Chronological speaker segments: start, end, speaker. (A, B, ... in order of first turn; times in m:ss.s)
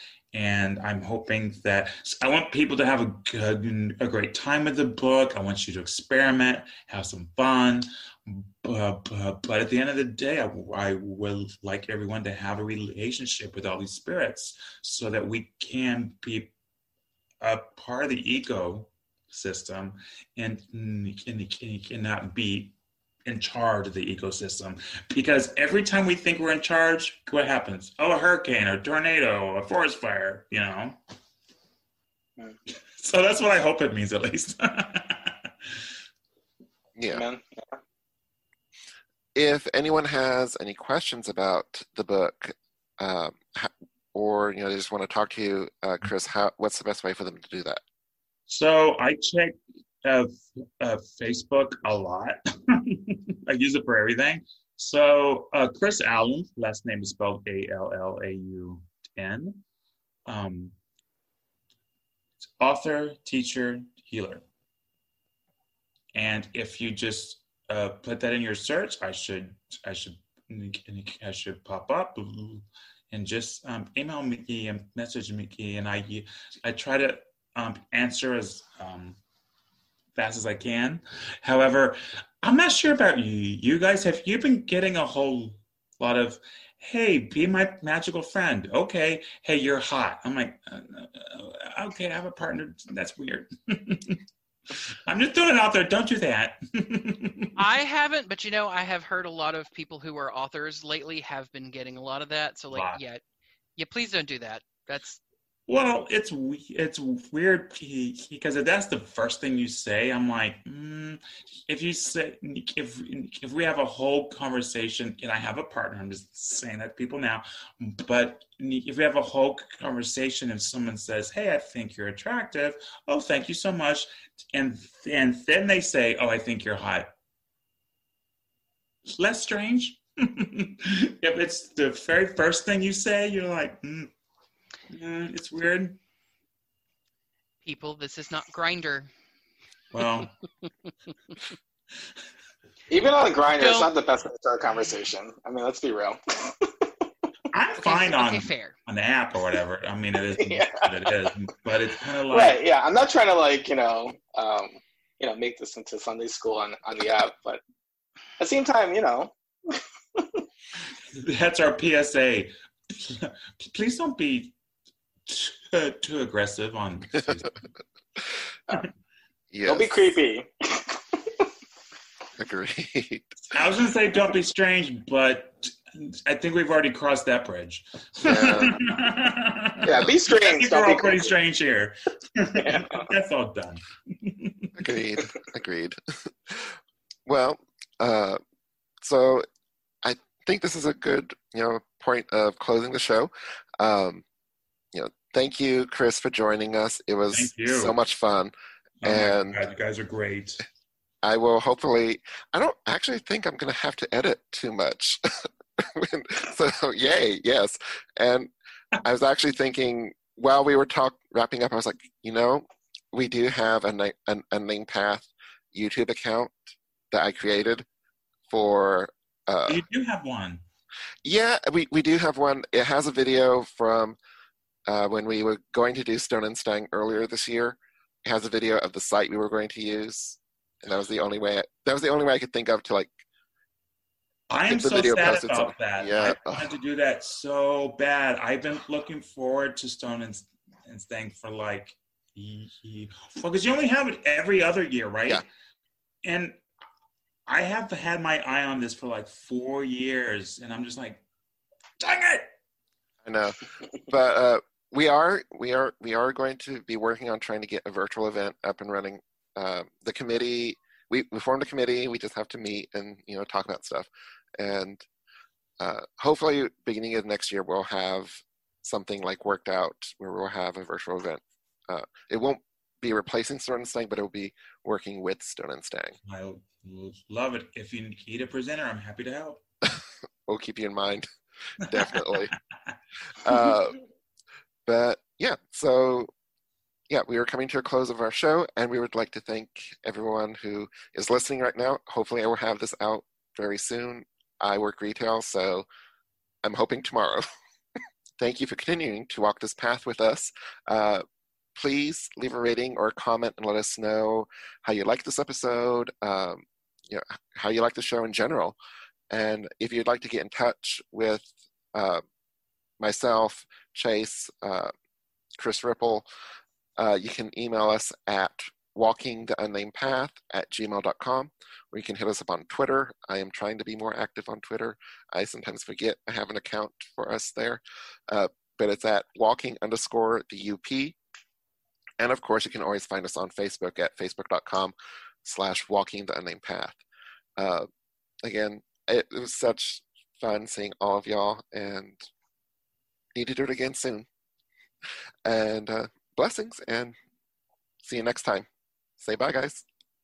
0:00.3-0:16.5 A
0:17.4-0:22.7 A
0:23.2-0:31.0 A
0:32.9-0:35.7 A
0:36.9-0:37.2 B
0:37.1-0:37.8 C
0:39.3-0:47.8 B
0:48.5-0:59.6 A
1:00.2-1:00.7 A
1:02.6-1:04.4 A
1:06.1-1:19.2 A
1:20.1-1:34.2 A
1:35.0-1:37.5 A
1:37.6-1:43.2 D
1:42.7-1:43.0 A
1:43.8-1:45.2 D
1:45.7-2:07.1 A
2:09.1-2:14.1 A
2:14.9-2:16.0 A
2:17.6-2:19.1 D
2:19.9-2:20.3 A
2:22.9-2:27.0 C
2:23.6-2:23.9 D
2:27.5-2:32.6 A
2:27.8-2:28.7 D
2:30.4-2:31.3 C
2:32.3-2:37.6 C
2:38.4-2:40.4 C
2:41.1-2:44.6 A
2:45.2-2:47.6 A
2:49.5-2:50.1 B
2:49.7-2:51.5 C
2:52.4-2:53.3 B
2:53.5-3:04.7 A
2:58.2-2:58.8 B
2:59.8-3:01.3 C
3:02.6-3:03.1 C
3:04.8-3:08.4 B
3:09.0-3:09.4 B
3:10.0-3:14.2 B
3:14.9-3:18.5 B
3:17.3-3:18.0 A
3:19.0-3:20.6 A
3:19.0-3:19.6 B
3:21.2-3:28.5 B
3:29.0-3:37.8 B
3:38.5-3:39.8 B
3:39.7-3:40.6 A
3:41.2-3:44.2 B
3:44.9-3:53.2 B
3:54.5-4:05.4 A
3:54.7-3:56.7 B
4:06.2-4:06.6 A
4:07.5-4:11.2 A
4:12.0-4:12.5 A
4:13.2-4:24.1 B
4:24.6-4:25.0 B
4:25.8-4:36.2 B
4:36.2-4:39.6 A
4:40.0-4:42.5 B
4:43.3-4:44.0 B
4:44.8-4:46.3 B
4:47.1-4:55.8 B
4:56.6-4:57.4 B
4:58.4-5:01.2 B
5:01.8-5:08.8 B
5:09.3-5:12.2 B
5:13.0-5:14.9 B
5:15.6-5:16.2 B
5:17.0-5:31.2 B
5:32.2-5:37.0 B
5:37.6-5:37.9 B
5:38.4-5:42.2 B
5:43.3-5:44.3 B
5:45.4-5:47.1 B
5:48.0-5:48.6 B
5:49.2-5:49.8 B